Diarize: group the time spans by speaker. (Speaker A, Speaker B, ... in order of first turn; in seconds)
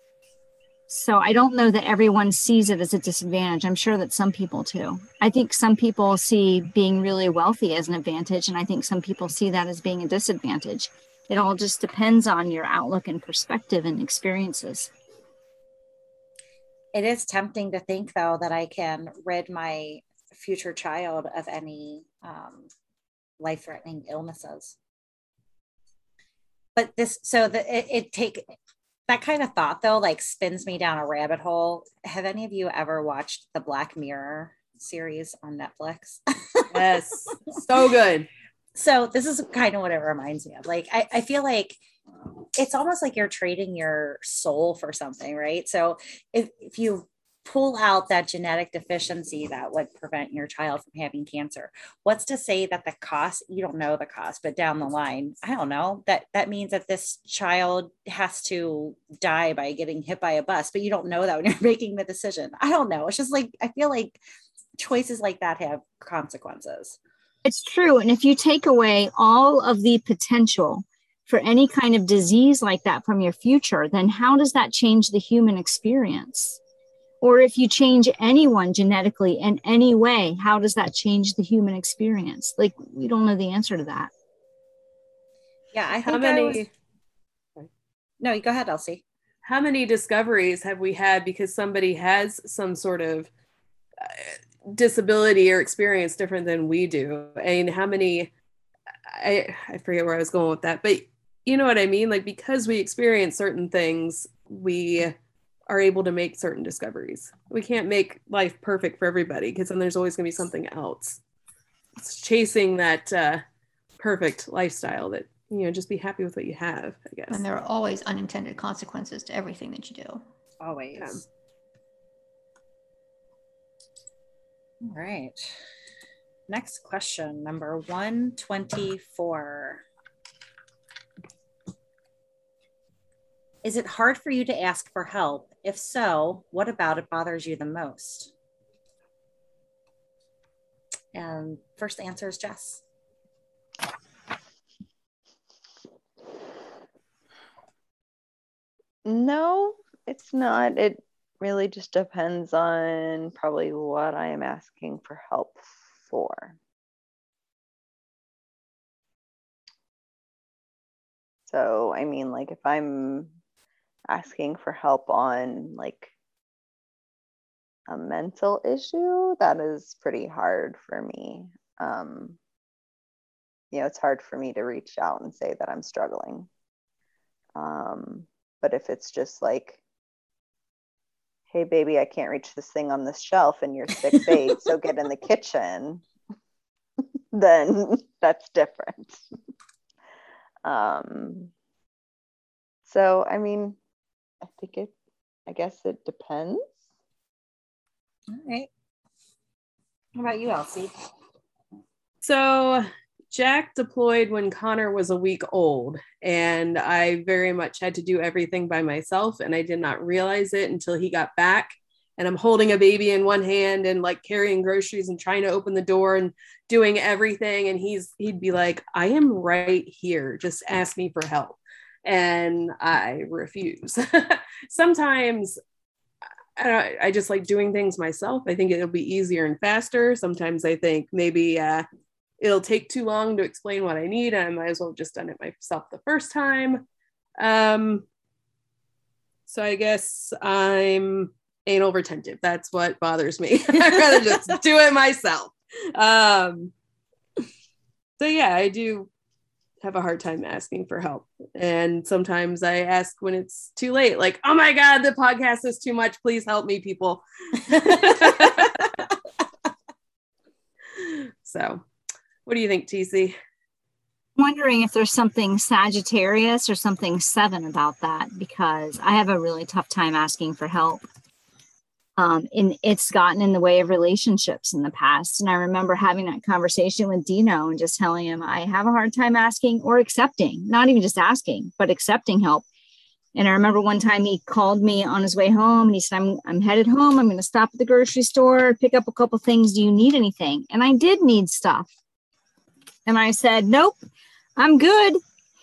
Speaker A: 0.9-14.9, 67.5-76.6, 77.2-84.1, 264.4-271.0, 272.2-282.6, 283.4-291.9, 293.1-294.0, 294.6-295.2
Speaker B: 16.9-22.7, 23.4-24.8, 26.8-28.4, 29.1-36.7, 38.8-41.8, 42.6-64.2, 64.8-67.0, 85.7-86.7, 88.2-89.0, 120.6-121.3, 124.8-125.6, 126.5-129.8, 133.6-138.3, 141.1-142.8, 198.3-198.7, 200.2-200.9
Speaker C: 36.7-38.3, 86.0-86.7, 89.4-93.3, 94.0-98.3, 99.1-105.2, 105.7-111.2, 112.0-113.4, 114.0-117.4, 202.2-225.6, 226.6-231.8, 232.4-236.8, 237.4-238.1, 239.5-246.7, 248.2-249.1, 249.8-258.9, 261.0-261.9, 262.5-263.4
Speaker D: 117.3-120.2
Speaker E: 149.1-156.6, 161.5-163.3, 164.1-166.1, 167.9-172.4, 173.7-176.5, 177.6-179.8, 181.5-186.0, 187.3-189.2, 190.6-191.5, 192.8-193.8, 194.4-194.9, 195.5-196.7